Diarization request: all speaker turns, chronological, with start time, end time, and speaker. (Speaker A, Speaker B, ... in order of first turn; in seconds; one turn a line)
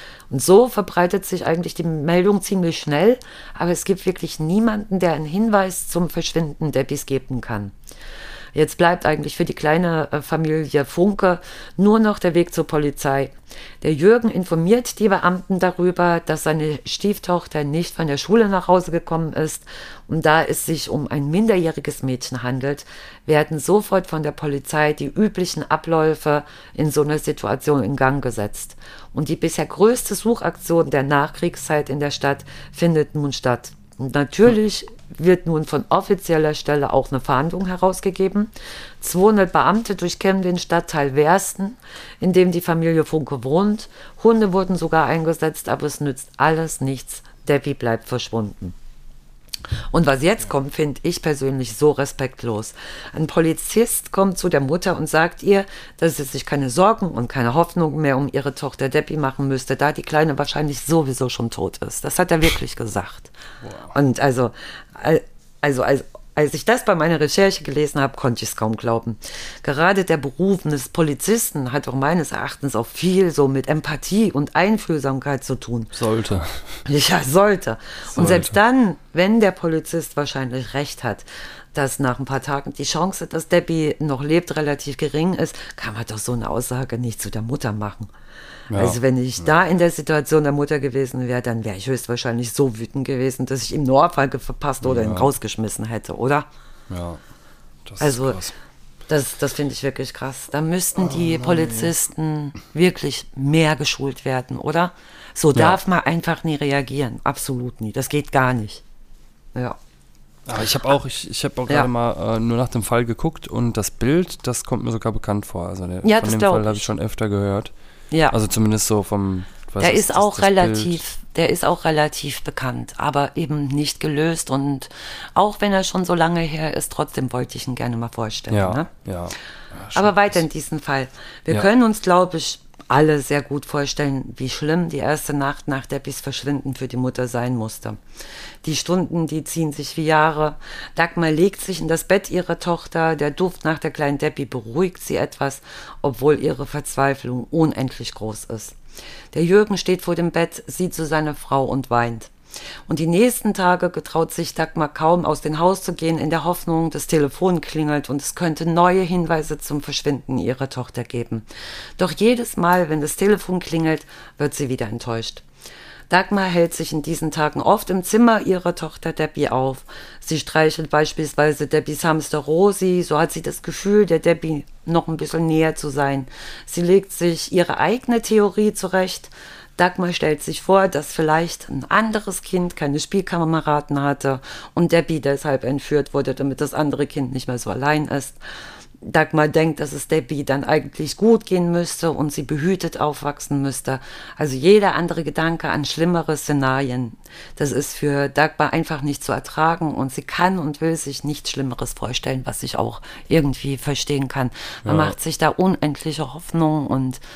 Speaker A: 0.3-7.7
Speaker A: 8.5-48.7
Speaker A: 49.9-63.3
Speaker B: 63.6-64.0
Speaker A: 63.9-75.9
Speaker B: 75.9-76.6
Speaker A: 76.8-88.1
Speaker B: 78.1-78.5
Speaker B: 88.7-89.5
Speaker A: 88.7-96.5
Speaker B: 94.8-95.3
Speaker B: 96.9-97.2
Speaker B: 97.8-98.5
Speaker A: 98.0-98.4
Speaker A: 99.1-108.8
Speaker B: 101.0-101.9
Speaker B: 105.5-105.8
Speaker B: 110.5-117.7
Speaker A: 116.0-116.9
Speaker A: 118.1-118.3
Speaker B: 118.3-121.0
Speaker A: 119.8-128.9
Speaker B: 128.5-130.4
Speaker A: 129.9-138.0
Speaker A: 138.6-148.8
Speaker A: 149.3-152.3
Speaker A: 152.9-161.4
Speaker A: 162.0-165.4
Speaker A: 166.1-188.4
Speaker A: 189.0-207.2
Speaker B: 204.8-205.1